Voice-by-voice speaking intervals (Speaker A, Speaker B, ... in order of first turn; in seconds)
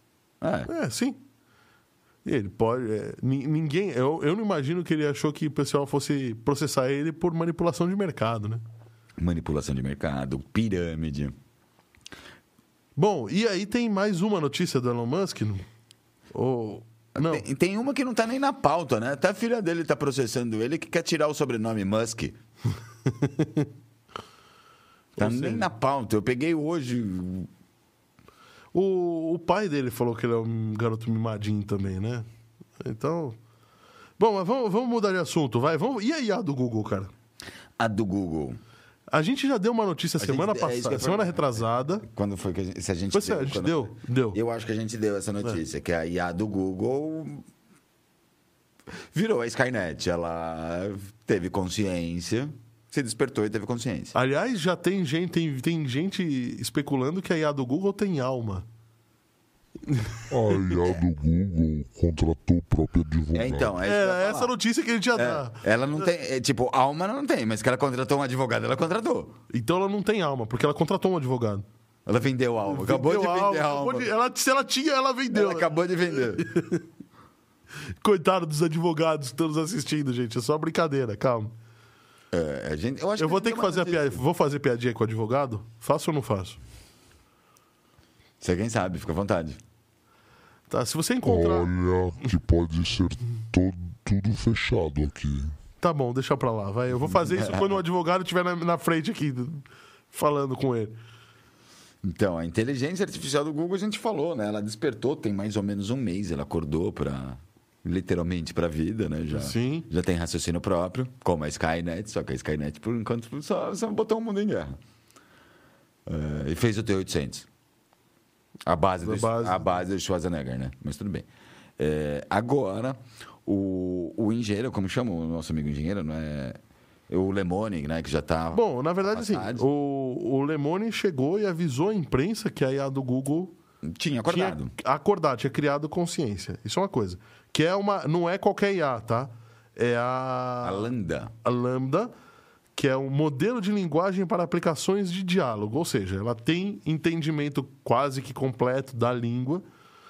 Speaker A: 0.4-0.7, 9.2-11.3, 17.2-22.4, 25.2-27.5, 37.8-38.6, 40.2-47.5, 49.1-54.1, 63.3-64.5, 65.2-69.3, 72.1-74.1, 75.3-76.5, 82.3-84.2, 88.4-89.6, 97.0-97.8, 102.0-114.8, 116.1-117.5, 118.7-121.3, 121.8-126.6, 127.1-129.6, 133.8-134.7, 140.6-141.3
Speaker B: 0.7-1.2, 2.2-8.6, 13.0-15.7, 16.3-17.4, 23.1-23.7, 25.2-25.7, 28.7-32.3, 32.8-33.4, 34.2-37.1, 39.1-42.1, 43.1-44.4, 54.1-58.7, 59.9-60.2, 63.8-65.6, 69.5-71.7, 72.7-76.8, 78.0-81.5, 83.2-86.6, 90.7-91.7, 95.8-101.0, 109.3-109.9, 119.0-119.8, 128.5-133.6, 134.3-140.9, 141.4-142.1, 142.8-149.6
Speaker C: 60.3-63.7, 91.2-95.5